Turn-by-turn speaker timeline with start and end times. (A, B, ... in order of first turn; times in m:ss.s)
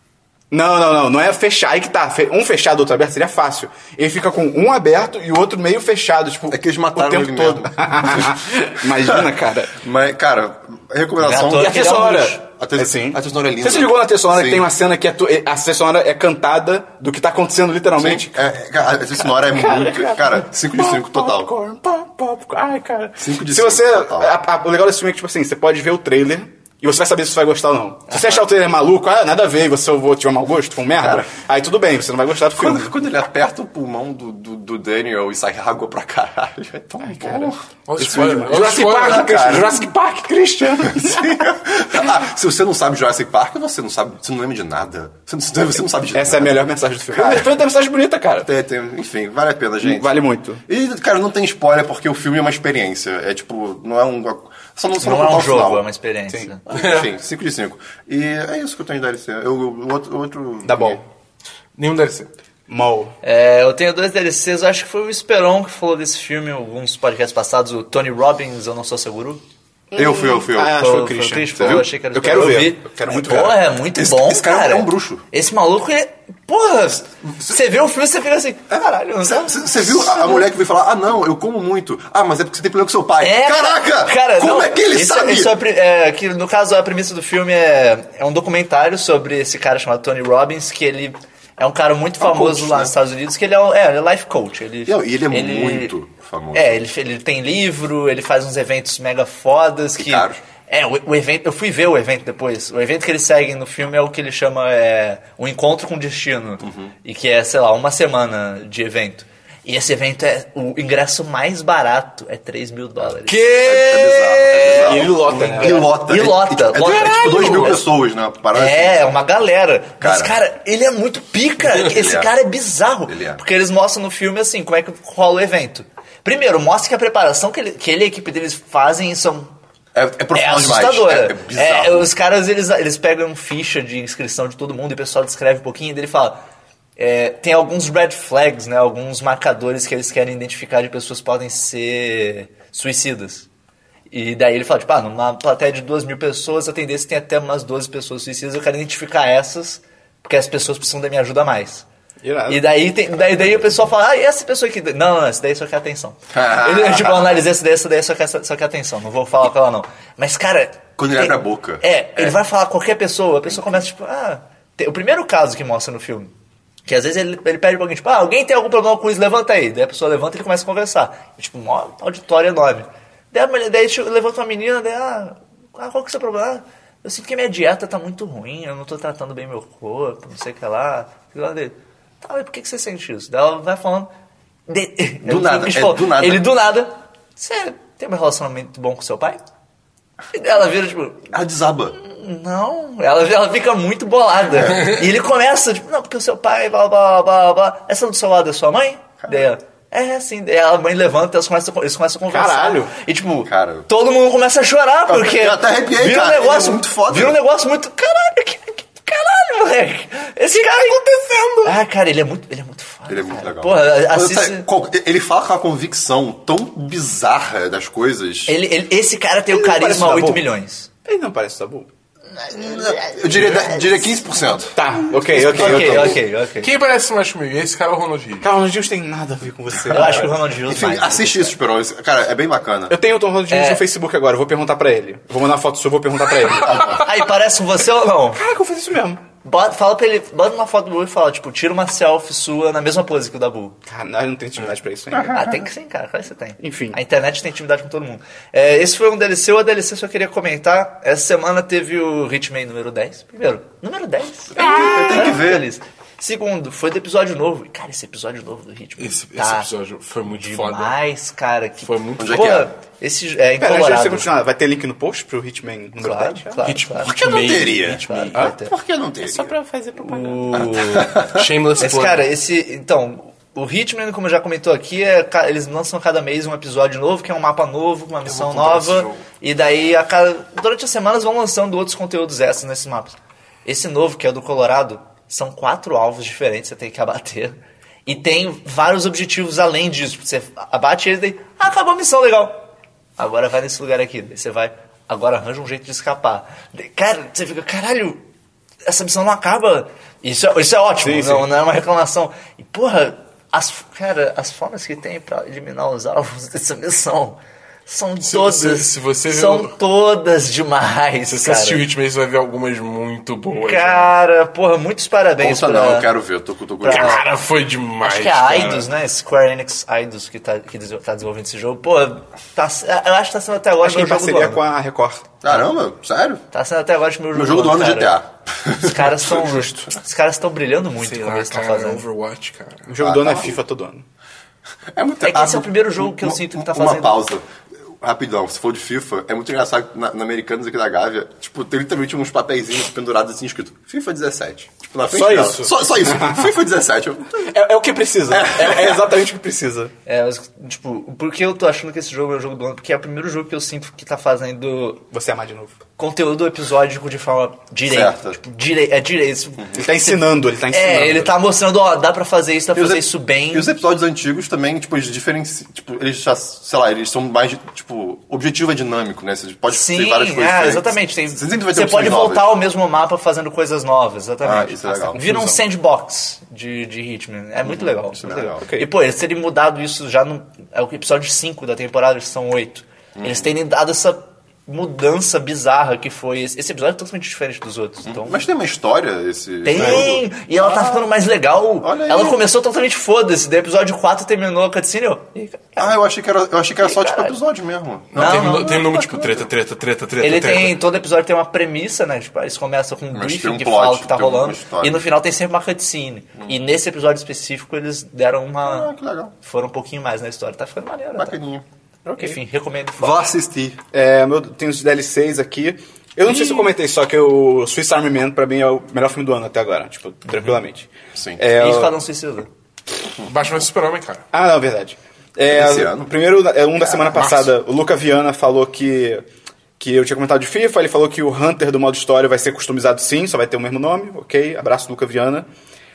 0:00.5-0:09.8 A
0:06.5-0:08.4 B
0:09.8-0:11.9 B
0:11.2-0:12.4 C
0:11.6-0:18.5 A
0:12.4-0:14.6 B
0:18.0-0:21.5 B
0:19.2-0:32.9 A
0:23.2-0:24.3 B
0:31.0-0:31.3 B
0:32.5-0:39.7 B
0:37.0-0:41.4 A
0:37.9-0:39.3 D
0:40.8-0:46.6 B
0:46.1-0:48.5 A
0:47.1-0:47.5 B
0:48.4-0:50.1 B
0:49.8-0:50.6 A
0:50.6-0:55.8 B
0:55.0-0:56.6 C
0:56.7-0:57.1 D
0:56.7-1:01.0 B
1:00.6-1:01.0 A
1:01.8-1:02.3 D
1:02.7-1:03.1 A
1:03.2-1:09.4 C
1:09.9-1:11.5 A
1:09.9-1:10.8 B
1:10.6-1:20.5 C
1:11.5-1:11.9 B
1:12.1-1:13.6 A
1:13.9-1:15.2 B
1:19.2-1:25.5 B
1:23.2-1:35.9 C
1:32.2-1:32.9 B
1:34.8-1:36.8 B
1:36.5-1:53.5 C
1:40.0-1:40.4 B
1:46.6-1:46.9 B
1:53.2-1:55.2 D
1:53.5-1:59.1 B
1:54.7-1:55.9 A
1:55.3-1:57.8 C
1:56.7-1:57.8 D
1:58.5-2:09.5 C
2:00.0-2:00.4 B
2:01.7-2:02.3 B
2:03.1-2:03.4 B
2:09.9-2:12.1 B
2:10.3-2:16.4 C
2:17.0-2:23.5 C
2:24.1-2:31.8 C
2:32.2-2:32.6 A
2:32.5-2:46.3 C
2:36.3-2:37.4 B
2:41.0-2:42.4 B
2:43.5-2:43.8 B
2:46.8-3:04.1 C
3:04.7-3:09.4 C
3:05.2-3:06.4 B
3:10.3-3:11.3 C
3:11.3-3:12.0 B
3:11.9-3:31.0 C
3:14.5-3:14.9 B
3:22.3-3:22.9 A
3:23.5-3:23.9 B
3:25.1-3:27.4 B
3:30.9-3:31.7 A
3:31.6-3:34.7 C
3:33.1-3:38.5 B
3:38.5-3:40.9 C
3:39.5-3:40.4 A
3:41.0-3:41.9 A
3:42.4-3:43.6 C
3:42.5-3:46.2 B
3:44.8-3:46.2 A
3:45.5-3:46.7 C
3:46.6-3:48.5 D
3:48.4-3:50.5 A
3:49.9-3:51.6 C
3:50.7-3:53.0 B
3:52.9-3:56.9 A
3:53.5-3:53.8 C
3:56.5-3:57.0 B
3:57.0-3:58.4 C
3:58.3-3:59.2 A
3:59.4-4:03.8 C
4:03.9-4:05.4 A
4:05.1-4:05.6 B
4:05.3-4:19.7 C
4:06.6-4:07.0 A
4:14.5-4:15.6 B
4:14.6-4:15.3 A
4:19.0-4:20.9 D
4:20.2-4:24.3 C
4:21.8-4:22.5 D
4:22.2-4:22.7 B
4:23.6-4:26.6 A
4:26.0-4:28.7 C
4:26.6-4:28.5 D
4:27.0-4:29.5 B
4:29.3-4:30.6 A
4:30.0-4:31.2 C
4:30.6-4:31.4 B
4:31.2-4:32.2 D
4:31.8-4:52.6 C
4:38.3-4:39.2 D
4:53.2-4:58.2 C
4:58.8-5:11.8 C
5:01.0-5:01.5 A
5:08.2-5:09.7 D
5:11.3-5:14.1 D
5:13.5-5:16.1 C
5:15.4-5:17.2 B
5:16.8-5:17.3 C
5:16.8-5:18.9 D
5:18.0-5:24.6 C
5:23.8-5:25.6 A
5:25.4-5:26.4 B
5:26.5-5:28.2 C
5:27.3-5:29.7 B
5:28.8-5:32.0 C
5:31.0-5:32.9 D
5:32.9-5:34.0 A
5:33.0-5:33.6 B
5:35.0-5:37.4 B
5:35.2-5:37.2 C
5:38.0-5:47.4 B
5:45.1-5:46.5 A
5:47.3-5:49.9 A
5:48.3-5:49.0 B
5:50.0-5:55.0 C
5:55.1-5:55.7 A
5:56.0-6:03.7 C
5:57.9-5:58.4 B
5:59.8-6:01.3 A
6:02.7-6:12.5 B
6:09.7-6:28.4 C
6:14.4-6:15.2 B
6:15.2-6:15.6 A
6:17.6-6:18.7 B
6:18.6-6:18.9 A
6:23.2-6:23.5 B
6:28.0-6:31.0 B
6:29.6-6:36.0 C
6:31.8-6:32.4 B
6:35.8-6:39.5 B
6:36.8-6:37.4 C
6:38.1-6:40.8 D
6:38.1-6:38.8 C
6:40.2-6:48.9 C
6:43.1-6:45.0 B
6:48.6-6:49.3 B
6:49.4-6:51.4 C
6:51.2-6:51.6 B
6:52.1-6:52.4 A
6:52.1-6:53.3 C
6:53.0-6:53.8 B
6:53.9-7:02.0 A
7:01.2-7:01.4 B
7:01.5-7:02.5 C
7:03.2-7:04.2 D
7:04.3-7:09.2 A
7:05.5-7:06.1 B
7:07.1-7:07.5 D
7:09.8-7:15.4 A